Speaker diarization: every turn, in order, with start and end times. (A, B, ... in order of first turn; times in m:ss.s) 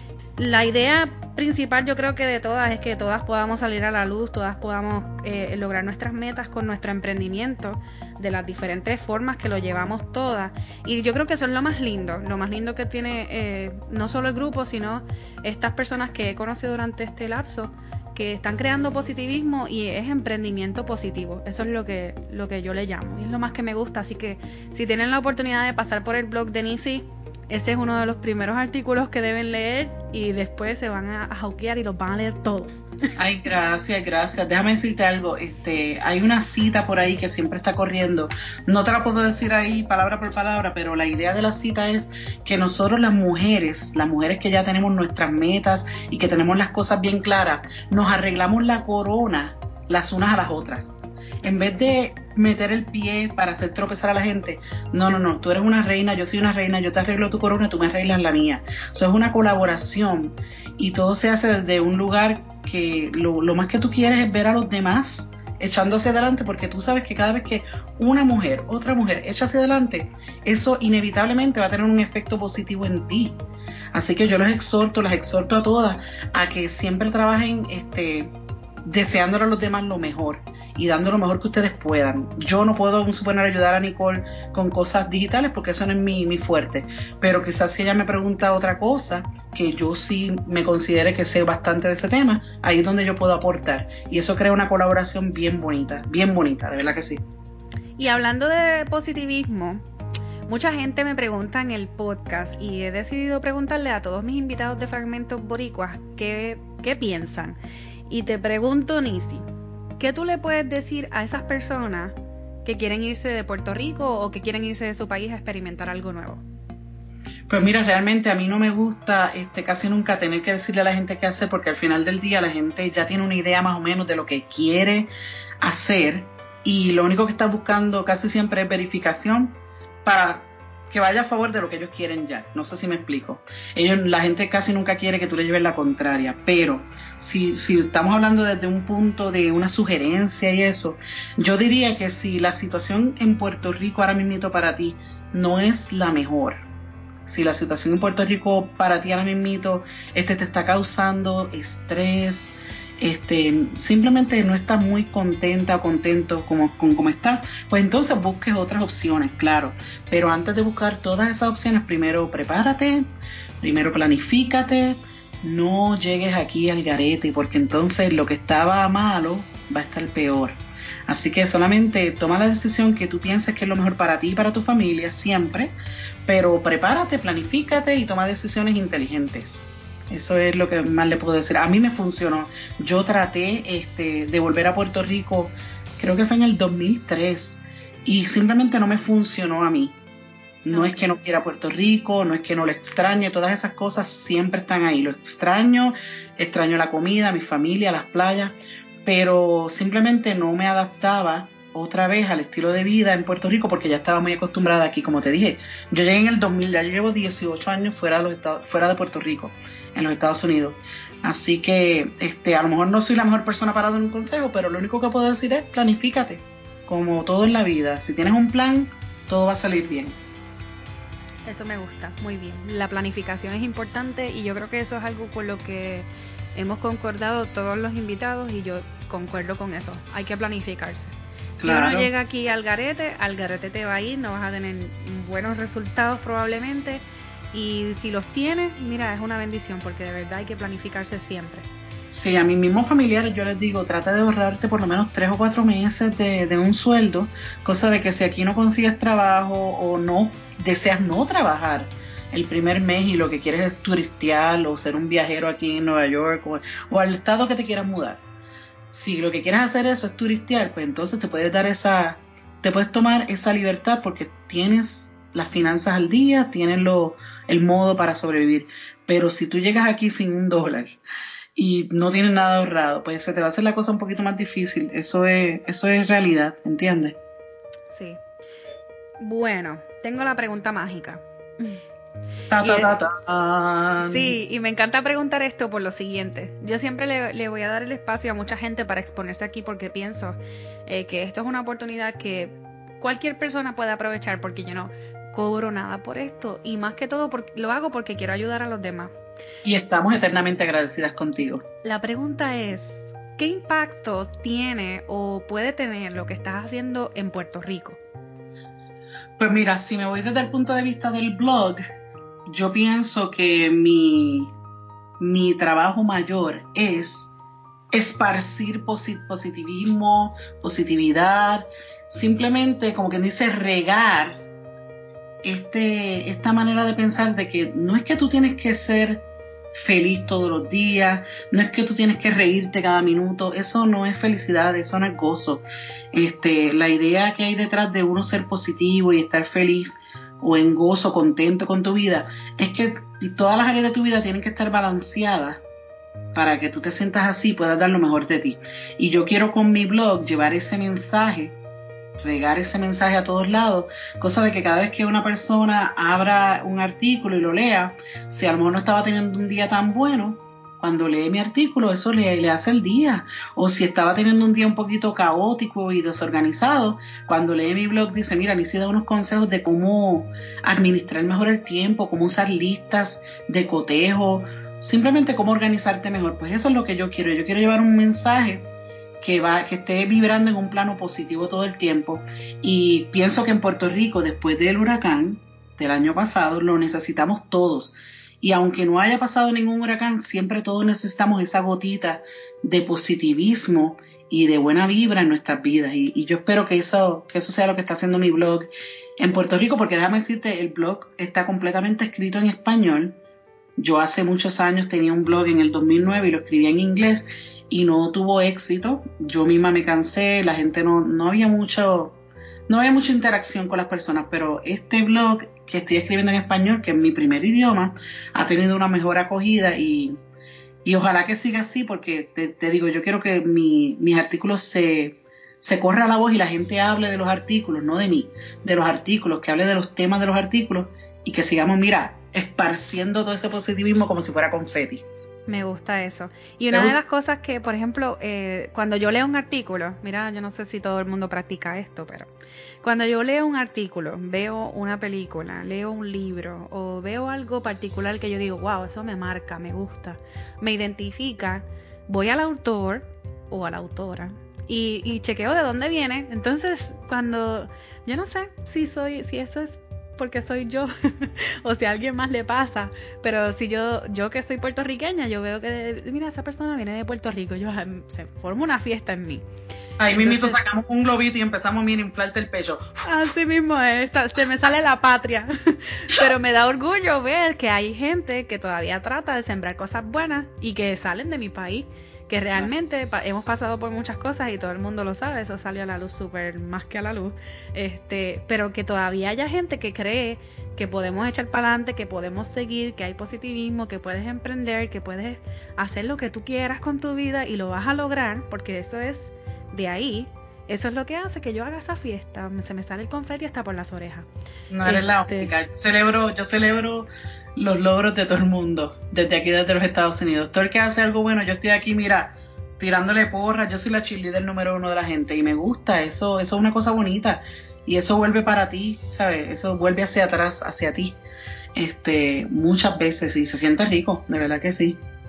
0:00.4-0:32.9 A
0:33.2-1:13.4 B
0:51.4-0:51.9 A
1:13.9-1:18.3 B
1:18.9-1:37.2 B
1:38.0-1:39.8 A
1:40.5-1:49.4 A
1:50.0-1:52.1 A
1:52.6-1:56.4 A
1:57.5-2:05.1 B
2:05.6-2:26.6 B
2:27.3-2:43.1 B
2:43.6-2:55.7 B
2:56.3-3:10.0 B
3:10.6-3:40.2 B
3:10.7-3:11.2 A
3:41.5-4:01.7 A
3:51.6-3:52.1 B
4:02.1-4:18.2 B
4:18.9-4:31.0 B
4:31.6-4:37.2 B
4:37.9-4:38.2 A
4:39.2-4:41.8 A
4:42.5-4:44.4 B
4:42.6-4:42.9 A
4:44.0-4:59.1 A
4:59.6-5:01.6 B
5:01.8-5:08.0 A
5:09.4-5:11.8 B
5:12.5-5:14.5 B
5:15.2-5:17.3 B
5:17.9-5:24.4 B
5:25.4-5:29.2 B
5:29.7-5:45.6 B
5:46.3-5:51.6 B
5:52.2-6:18.7 B
6:19.2-6:43.2 B
6:43.8-6:52.2 B
6:52.7-7:00.2 B
7:00.8-7:15.0 B
7:15.5-7:22.3 A
7:16.7-7:17.0 B
7:22.8-7:49.4 A
7:50.0-7:53.3 B
7:50.1-7:50.6 A
7:53.0-8:24.3 A
8:24.7-8:41.2 B
8:24.8-8:25.5 A
8:41.8-8:45.0 B